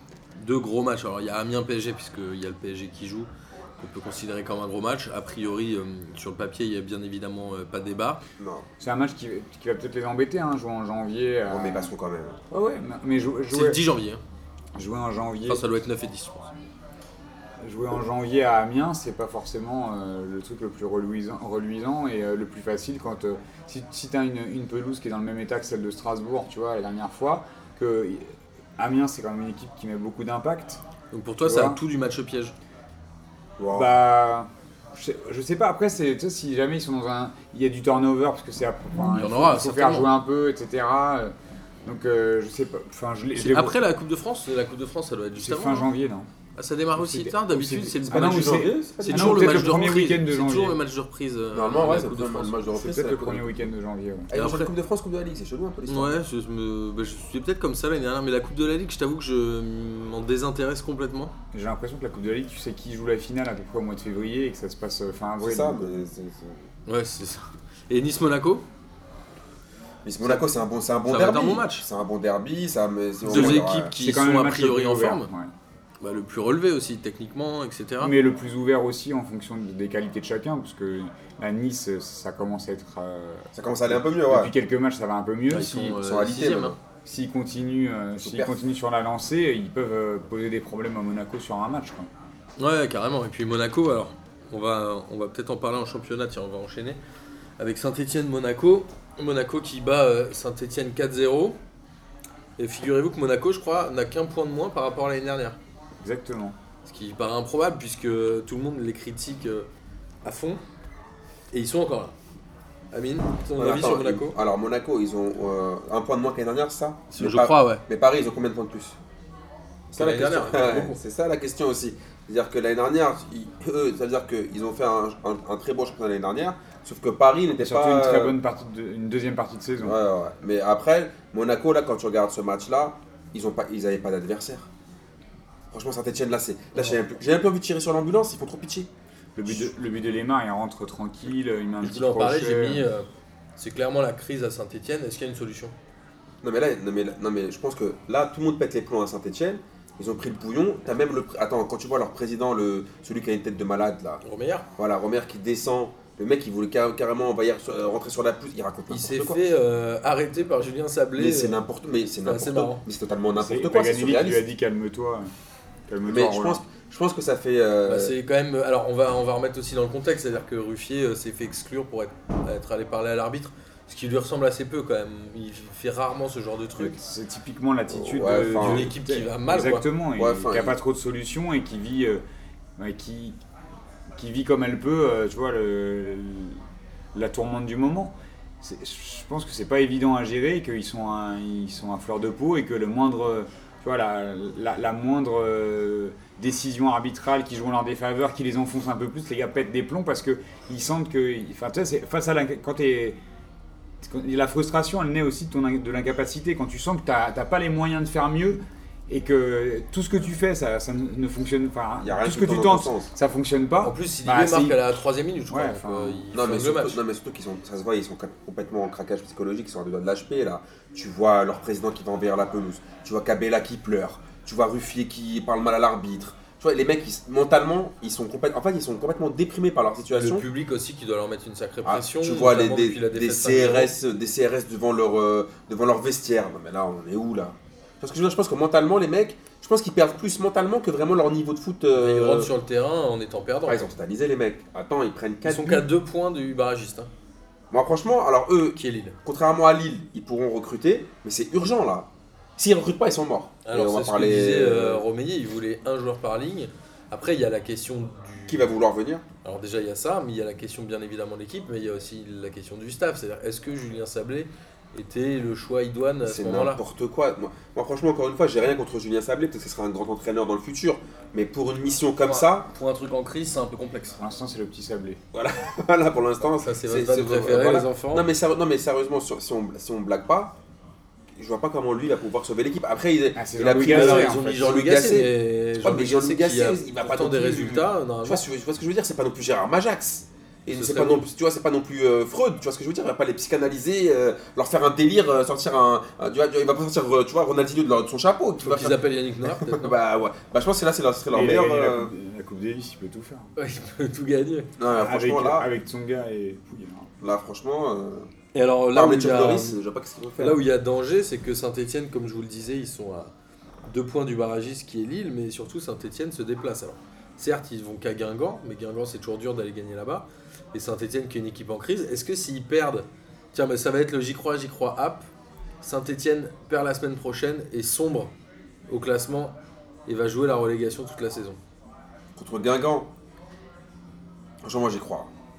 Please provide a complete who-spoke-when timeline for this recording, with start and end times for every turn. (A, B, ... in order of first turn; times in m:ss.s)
0:00.4-0:08.2 A
0:08.4-0:08.7 B
0:08.8-0:11.9 C
0:11.5-0:12.4 B
0:12.5-0:13.8 C
0:13.5-0:14.2 A
0:14.8-0:15.6 C
0:15.5-0:16.5 A
0:17.6-0:30.8 C
0:31.1-0:32.6 A
0:31.4-0:31.8 C
0:33.6-0:33.9 B
0:33.7-0:41.3 C
0:39.0-0:40.1 A
0:41.8-0:43.8 C
0:43.4-0:45.9 A
0:45.4-0:46.3 C
0:46.6-0:52.6 A
0:47.0-0:50.8 C
0:48.1-0:49.8 B
0:51.5-0:53.6 B
0:52.7-0:54.3 C
0:54.3-0:56.2 B
0:54.3-0:54.7 A
0:55.9-1:01.3 A
1:01.5-1:06.1 C
1:05.4-1:06.6 B
1:06.9-1:08.6 A
1:10.0-1:14.0 B
1:11.1-1:11.8 A
1:13.3-1:15.3 A
1:13.3-1:15.5 C
1:16.0-1:18.1 A
1:18.0-1:26.0 C
1:23.6-1:24.5 B
1:25.5-1:26.8 A
1:25.9-1:26.8 B
1:27.0-1:32.1 C
1:28.2-1:28.6 B
1:32.6-1:37.0 A
1:37.6-1:41.6 A
1:42.6-1:45.6 A
1:46.0-1:46.6 C
1:46.9-1:49.7 A
1:50.2-1:50.6 A
1:51.5-1:52.2 A
1:52.9-1:54.4 A
1:53.6-1:59.0 B
1:57.1-1:57.8 A
1:59.9-2:08.4 B
2:00.0-2:01.0 A
2:07.6-2:10.0 C
2:09.8-2:14.7 B
2:15.7-2:18.9 B
2:19.4-2:22.9 C
2:19.5-2:19.8 B
2:21.8-2:25.7 A
2:26.4-2:34.2 B
2:34.2-2:34.7 A
2:34.8-2:39.4 B
2:38.9-2:41.6 A
2:41.2-2:44.4 B
2:42.3-2:42.8 A
2:43.4-2:45.3 C
2:45.9-2:46.6 C
2:46.1-2:48.2 B
2:47.9-2:57.0 A
2:56.8-3:02.2 C
2:57.9-2:58.9 B
2:58.6-2:59.8 A
3:00.2-3:00.8 B
3:02.8-3:03.4 C
3:04.2-3:06.6 C
3:07.1-3:23.2 C
3:24.0-3:34.9 C
3:32.0-3:33.1 B
3:33.8-3:37.0 A
3:35.5-3:36.3 C
3:36.3-3:50.5 B
3:50.2-3:53.9 A
3:51.8-4:02.5 B
4:01.9-4:03.9 A
4:03.7-4:05.9 B
4:05.4-4:07.1 A
4:07.7-4:15.0 B
4:08.7-4:09.2 A
4:13.6-4:18.7 A
4:18.5-4:19.2 B
4:19.4-4:26.8 A
4:26.3-4:32.7 B
4:32.2-4:34.2 A
4:34.2-4:35.2 C
4:35.3-4:40.6 B
4:36.6-4:38.3 A
4:41.4-5:02.1 B
4:43.4-4:44.8 C
4:43.8-4:48.4 A
4:50.7-4:51.3 A
4:58.6-5:00.0 A
5:01.3-5:03.5 C
5:03.6-5:04.7 A
5:04.8-5:05.7 B
5:04.9-5:07.1 C
5:07.2-5:08.3 B
5:08.5-5:09.8 A
5:08.9-5:10.6 B
5:10.4-5:13.3 A
5:13.9-5:25.3 A
5:25.8-5:28.3 A
5:28.9-5:31.6 A
5:32.4-5:33.1 B
5:34.6-5:35.3 B